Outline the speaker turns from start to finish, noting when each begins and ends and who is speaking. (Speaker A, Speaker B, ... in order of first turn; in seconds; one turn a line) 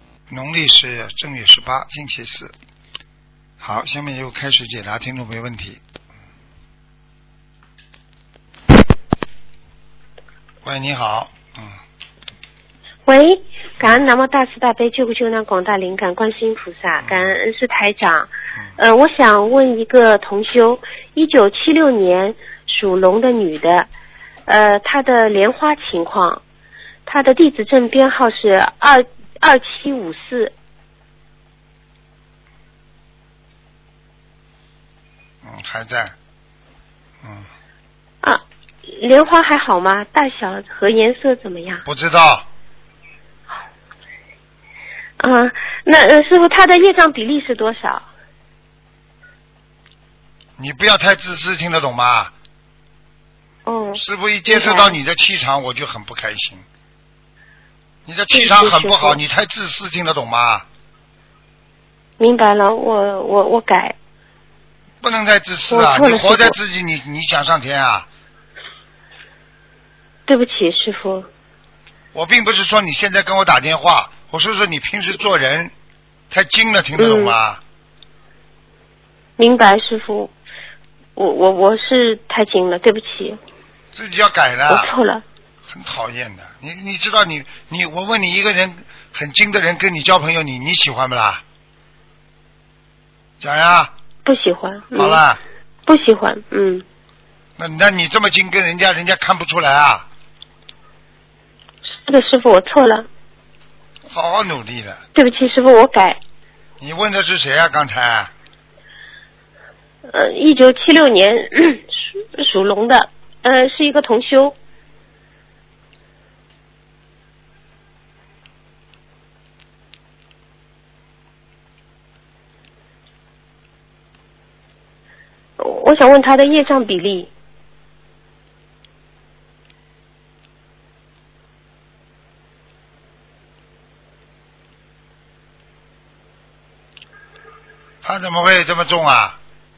Speaker A: 0.3-2.5
Speaker A: 3.6-5.8
Speaker A: 10.6-11.7
Speaker B: 13.1-23.9
Speaker A: 17.0-17.3
Speaker B: 24.5-26.4
Speaker B: 27.1-30.5
Speaker A: 35.4-36.1
Speaker A: 37.2-37.5
Speaker B: 38.2-41.8
Speaker A: 41.8-42.5
Speaker B: 45.2-48.0
Speaker A: 50.6-52.3
Speaker B: 53.6-54.9
Speaker A: 54.0-56.6
Speaker A: 58.0-60.6
Speaker B: 58.3-59.2
Speaker B: 62.2-63.9
Speaker A: 65.0-68.1
Speaker B: 65.7-66.6
Speaker B: 70.3-71.3
Speaker A: 72.1-75.7
Speaker A: 76.3-77.6
Speaker B: 77.0-77.3
Speaker B: 79.4-80.3
Speaker B: 81.2-83.4
Speaker A: 83.9-84.9
Speaker B: 84.7-85.2
Speaker A: 85.7-91.4
Speaker A: 93.4-93.9
Speaker B: 94.2-95.2
Speaker A: 94.9-95.4
Speaker B: 95.9-96.8
Speaker A: 97.6-100.0
Speaker B: 101.8-103.1
Speaker A: 104.1-105.0
Speaker B: 105.1-106.2
Speaker A: 106.8-108.3
Speaker B: 110.0-114.5
Speaker B: 125.6-127.3
Speaker A: 138.0-139.4